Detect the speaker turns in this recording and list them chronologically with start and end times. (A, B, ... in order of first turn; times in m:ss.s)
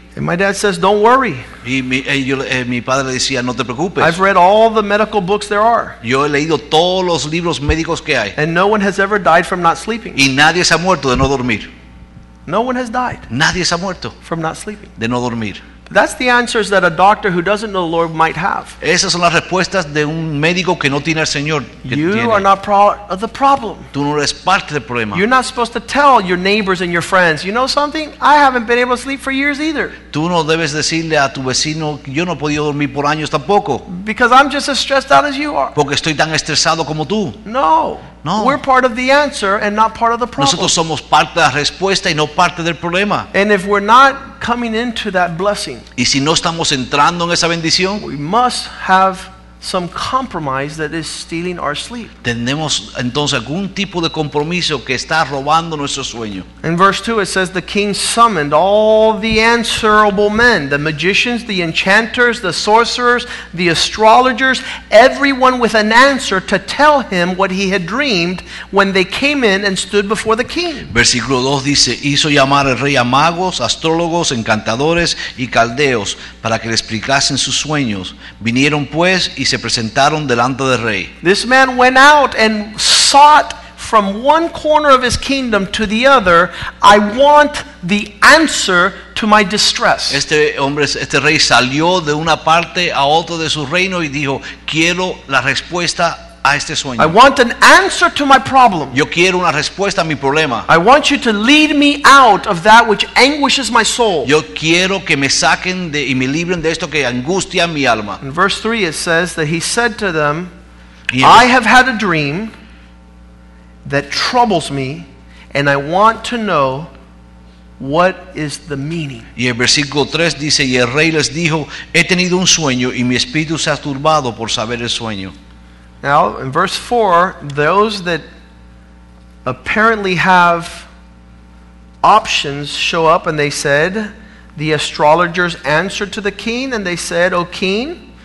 0:00.2-0:01.4 A
0:01.6-0:04.2 B
0:04.0-0:06.0 A
0:06.0-0:08.4 B
0:08.4-0:10.2 A
0:10.2-0:11.7 B
0:12.5-0:13.3 A
0:13.3-0:14.2 B
0:14.2-0:14.9 A
0:15.0-0:15.6 B
0:15.9-0:18.8 A
0:18.8-0:22.5 B
0:21.8-0:23.9 A
0:23.9-0:25.2 B
0:25.1-0:30.0 A
0:30.1-0:33.8 B
0:33.9-0:35.8 A
0:35.8-0:37.4 B
0:37.4-0:40.7 A
0:38.2-0:38.6 B
0:40.4-0:43.3 B
0:43.3-0:45.8 A
0:46.0-0:48.0 B
0:48.0-0:52.1 A
0:52.2-0:56.5 B
0:56.6-1:10.9 A
1:10.9-1:21.1 B
1:21.2-1:30.2 A
1:30.1-1:37.1 B
1:37.0-1:39.0 A
1:38.9-1:40.7 B
1:40.7-1:44.3 A
1:44.2-1:48.2 B
1:48.2-1:50.5 A
1:51.1-1:51.5 B
1:51.2-1:52.5 A
1:53.8-1:56.9 A
1:57.8-1:59.3 A
1:59.4-2:05.3 B
2:06.0-2:08.2 A
2:09.4-2:10.9 A
2:12.0-2:18.0 A